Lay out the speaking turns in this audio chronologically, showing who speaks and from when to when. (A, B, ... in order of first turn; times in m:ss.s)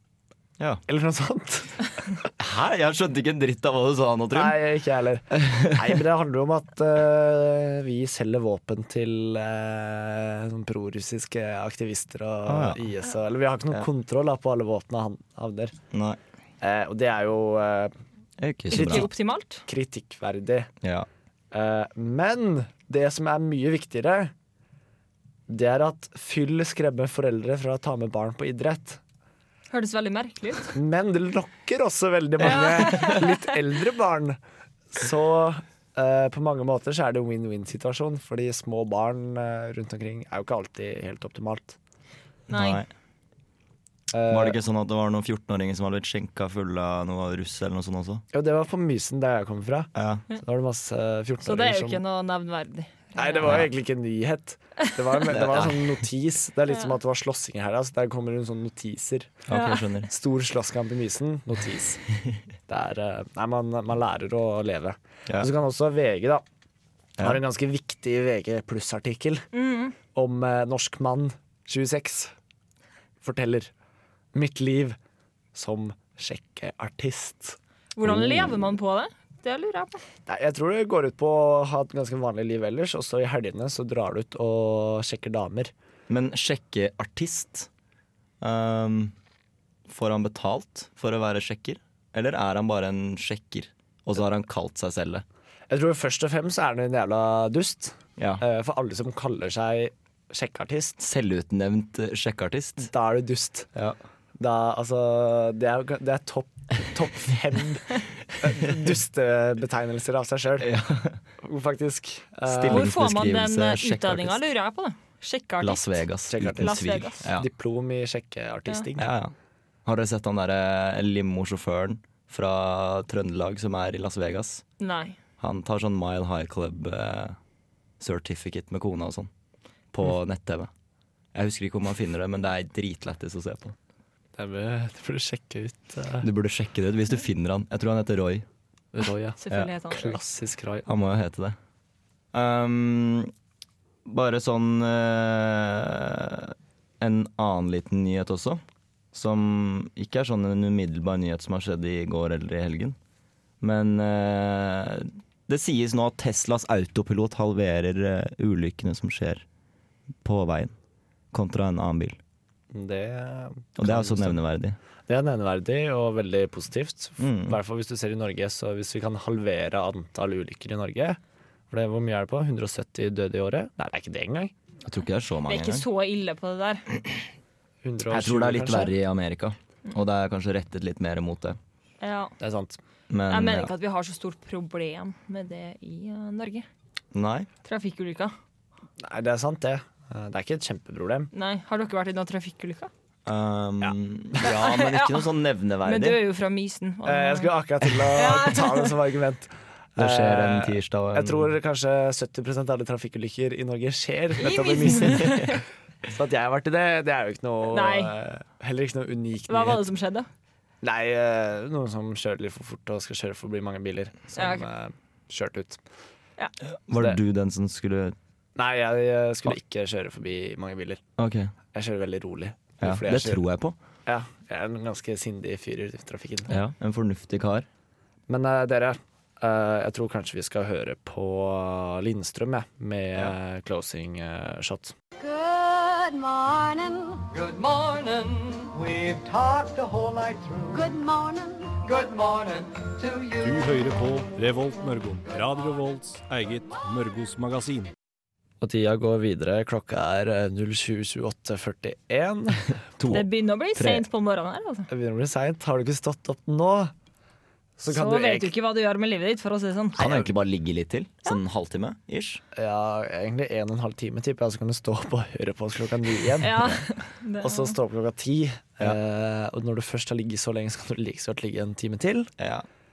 0:00.9-0:02.2 A
0:02.4-0:04.6 B
0:04.3-0:15.8 A
0:05.4-0:05.9 B
0:12.5-0:12.8 B
0:15.9-0:16.2 B
0:16.6-0:17.9 A
0:18.4-0:19.1 B
0:18.7-0:19.1 A
0:18.7-0:19.6 C
0:19.7-0:20.7 A
0:20.8-0:21.1 B
0:21.5-0:24.3 A
0:25.5-0:29.0 A
0:29.7-0:30.8 C
0:30.7-0:34.4 A
0:32.4-0:33.5 C
0:34.9-0:41.8 A
0:42.5-0:42.8 C
0:42.5-0:42.9 B
0:44.1-0:44.6 A
0:44.3-0:48.2 B
0:48.3-0:52.0 A
0:50.0-0:50.3 B
0:51.4-0:53.7 C
0:53.2-0:59.4 A
0:55.2-0:56.0 B
0:59.5-1:00.1 B
0:59.5-0:59.9 C
1:00.1-1:02.0 A
1:02.7-1:06.4 A
1:07.2-1:09.5 A
1:09.5-1:10.0 C
1:10.2-1:12.3 A
1:13.2-1:13.7 A
1:14.3-1:15.0 A
1:15.5-1:18.7 A
1:18.0-1:20.0 C
1:20.3-1:25.7 A
1:26.1-1:27.7 B
1:28.4-1:29.1 B
1:29.9-1:35.2 B
1:35.7-1:41.0 A
1:38.2-1:38.4 B
1:41.0-1:42.9 B
1:42.8-1:43.7 A
1:44.4-1:50.7 A
1:48.4-1:48.7 B
1:50.6-1:51.2 B
1:51.4-1:52.9 A
1:52.5-1:54.4 B
1:52.7-1:56.0 C
1:55.6-1:57.5 B
1:56.3-1:59.1 A
1:56.6-1:57.3 C
1:59.0-1:59.3 B
1:59.8-2:04.6 B
2:04.8-2:05.2 C
2:05.4-2:07.4 B
2:08.0-2:09.3 B
2:09.9-2:10.7 B
2:11.3-2:13.8 B
2:14.4-2:16.3 A
2:16.2-2:18.5 B
2:18.9-2:20.9 A
2:19.4-2:20.2 C
2:20.9-2:21.6 B
2:22.3-2:23.3 B
2:24.1-2:28.6 B
2:29.1-2:33.0 B
2:33.6-2:39.4 B
2:40.2-2:40.7 B
2:41.3-2:42.2 B
2:42.7-2:44.4 A
2:43.8-2:44.8 B
2:45.1-2:54.5 A
2:47.2-2:47.6 B
2:54.8-2:55.8 B
2:55.5-2:56.9 C
2:57.8-2:59.0 A
2:58.1-3:01.6 B
3:02.0-3:02.3 C
3:02.4-3:02.8 A
3:03.1-3:03.7 B
3:03.3-3:06.7 C
3:07.1-3:07.5 B
3:07.6-3:08.3 C
3:09.0-3:11.3 A
3:11.3-3:12.9 C
3:13.3-3:16.2 B
3:13.8-3:14.4 A
3:14.4-3:15.3 C
3:15.8-3:19.0 C
3:17.0-3:29.8 A
3:20.0-3:21.5 B
3:24.4-3:25.6 C
3:25.0-3:25.4 B
3:27.7-3:28.1 C
3:29.5-3:30.3 C
3:30.8-3:35.8 A
3:34.4-3:34.7 C
3:36.6-3:38.2 B
3:38.6-3:41.0 A
3:41.2-3:41.5 B
3:41.7-3:43.4 A
3:42.8-3:43.8 B
3:44.1-3:46.6 A
3:46.5-3:47.7 B
3:48.3-3:55.0 A
3:55.2-3:57.2 D
3:57.3-4:00.9 E
4:00.7-4:01.8 D
4:01.8-4:03.6 E
4:03.4-4:07.9 F
4:08.6-4:13.2 A
4:13.0-4:14.0 B
4:13.1-4:14.9 C
4:14.9-4:16.9 A
4:17.8-4:18.5 A
4:17.9-4:20.1 C
4:20.0-4:22.4 B
4:20.0-4:20.3 A
4:22.5-4:26.8 A
4:26.4-4:27.8 C
4:27.4-4:32.3 A
4:32.4-4:32.7 B